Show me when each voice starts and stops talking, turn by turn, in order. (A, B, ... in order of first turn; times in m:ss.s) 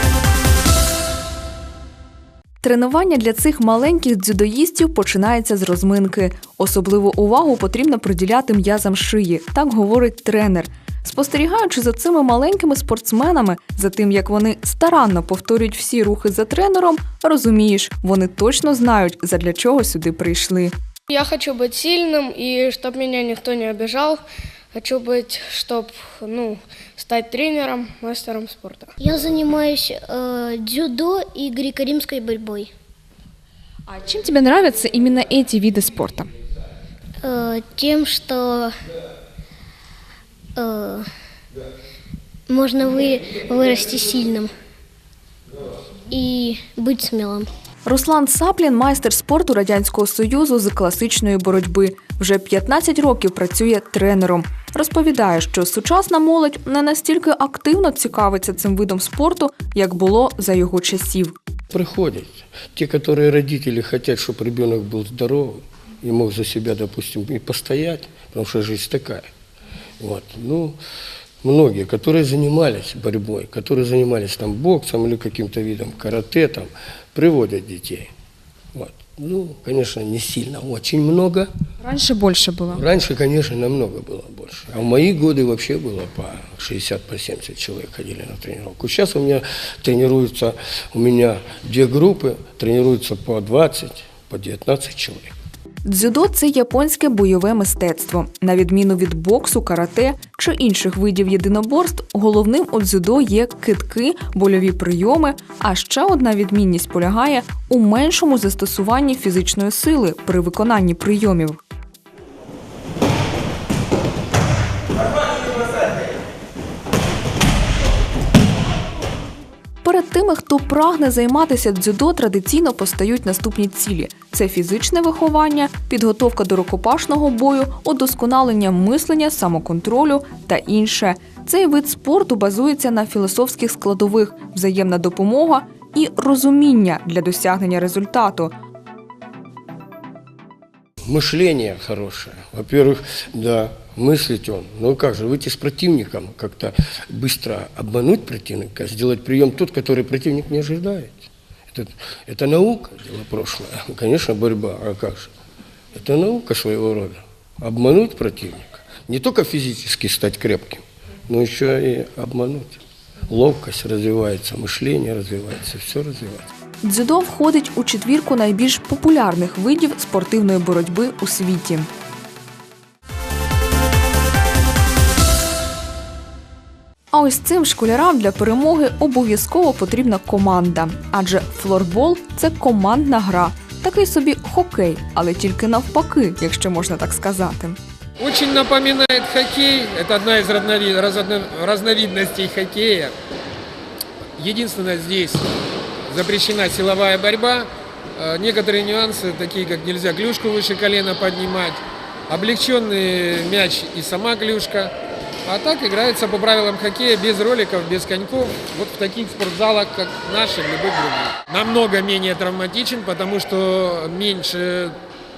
0:02.6-0:20.7 A
0:21.1-0:24.2 B
0:24.7-0:28.9 B
0:29.0-0:32.7 C
0:33.9-0:36.3 A
0:37.2-0:38.7 C
0:40.6-0:41.0 C
0:42.5-0:44.5 C
0:46.1-0:47.5 C
0:47.8-1:01.3 A
1:01.7-1:09.3 D
1:10.0-1:10.8 D
1:11.4-1:18.1 D
1:18.7-1:21.5 D
1:21.8-1:22.8 A
1:22.7-1:35.3 D
1:35.8-1:51.6 A
1:59.8-2:18.5 A
2:21.0-2:35.3 D
2:35.9-2:46.5 D
2:46.8-2:51.9 A
2:57.1-3:07.8 A
3:08.2-3:13.1 E
3:14.4-3:15.4 E
3:16.1-3:24.9 E
3:25.4-3:35.0 E